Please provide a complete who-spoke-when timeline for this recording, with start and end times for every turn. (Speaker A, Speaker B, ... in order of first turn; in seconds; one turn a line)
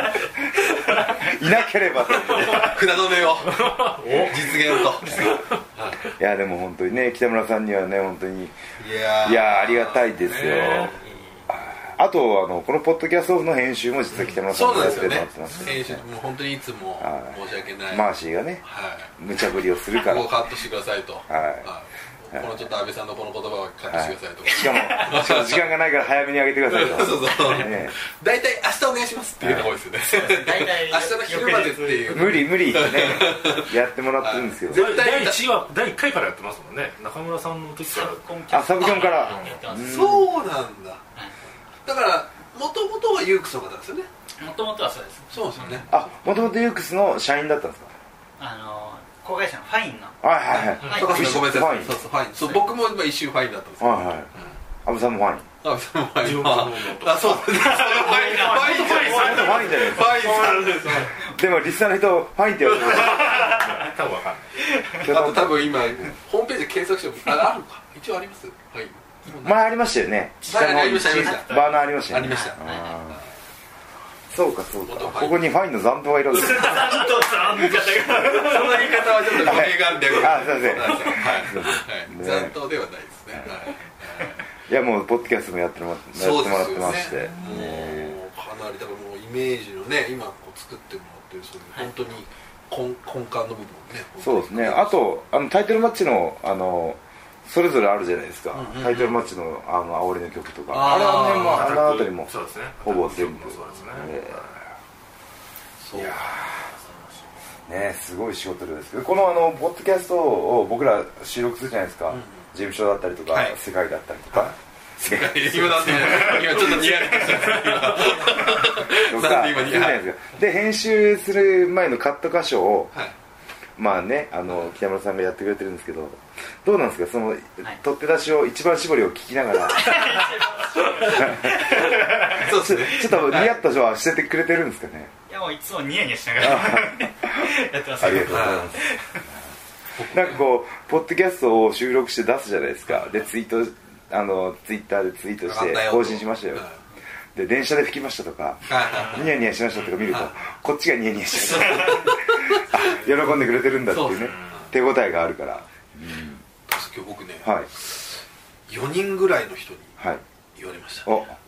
Speaker A: 0.6-2.8
Speaker B: 2.2-6.1
Speaker C: 3.5-5.5
Speaker A: 6.2-8.6
Speaker B: 8.8-11.1
Speaker A: 9.2-10.9
Speaker C: 10.2-10.9
Speaker D: 11.0-11.5
Speaker A: 11.5-16.0
Speaker B: 14.5-18.1
Speaker A: 17.0-18.6
Speaker B: 18.6-19.1
Speaker A: 19.2-20.3
Speaker B: 19.9-25.7
Speaker A: 21.3-21.7
Speaker A: 22.3-22.6
Speaker A: 23.9-28.0
Speaker D: 24.7-25.1
Speaker B: 26.7-35.4
Speaker A: 29.4-29.7
Speaker D: 30.1-32.9
Speaker A: 32.1-34.9
Speaker C: 34.7-38.2
Speaker D: 37.9-40.2
Speaker A: 38.5-40.3
Speaker C: 38.8-39.6
Speaker B: 39.8-41.0
Speaker B: 41.9-44.1
Speaker D: 44.4-45.7
Speaker B: 45.3-46.5
Speaker C: 45.6-45.9
Speaker A: 45.9-47.9
Speaker D: 48.4-50.2
Speaker A: 50.2-52.0
Speaker B: 50.5-54.4
Speaker D: 50.8-51.3
Speaker A: 53.8-54.3
Speaker A: 54.9-55.5
Speaker B: 55.6-61.2
Speaker C: 56.2-60.9
Speaker D: 57.6-61.4
Speaker A: 59.1-60.7
Speaker A: 61.2-63.6
Speaker C: 62.9-64.8
Speaker D: 63.1-63.9
Speaker D: 64.7-65.0
Speaker A: 65.0-66.1
Speaker B: 65.0-69.5
Speaker A: 69.4-73.2
Speaker B: 70.5-72.6
Speaker D: 70.6-73.0
Speaker A: 74.3-77.0
Speaker B: 74.8-75.5
Speaker D: 76.3-79.6
Speaker B: 76.6-76.9
Speaker B: 77.6-84.4
Speaker A: 79.4-82.6
Speaker A: 83.3-83.6
Speaker A: 84.6-88.2
Speaker B: 86.2-95.0
Speaker A: 94.2-104.5
Speaker B: 98.5-99.2
Speaker B: 100.7-101.7
Speaker C: 101.1-104.2
Speaker B: 105.8-106.2
Speaker A: 105.9-106.7
Speaker A: 107.7-116.7
Speaker B: 112.1-112.4
Speaker B: 113.3-113.6
Speaker B: 114.3-120.1
Speaker C: 116.4-118.2
Speaker A: 118.9-123.0
Speaker A: 123.8-130.0
Speaker D: 129.7-132.5
Speaker B: 130.8-133.6
Speaker A: 131.1-135.1
Speaker D: 135.3-139.2
Speaker A: 136.4-138.8
Speaker B: 138.2-138.7
Speaker B: 140.0-140.4
Speaker A: 140.0-146.7
Speaker B: 145.5-146.8
Speaker A: 147.3-156.4
Speaker B: 148.7-149.3
Speaker C: 148.9-149.2
Speaker B: 150.0-150.3
Speaker B: 151.3-152.9
Speaker B: 153.9-154.7
Speaker C: 154.2-154.6
Speaker B: 156.7-160.0
Speaker A: 157.4-157.7
Speaker B: 160.6-161.2
Speaker A: 161.1-161.4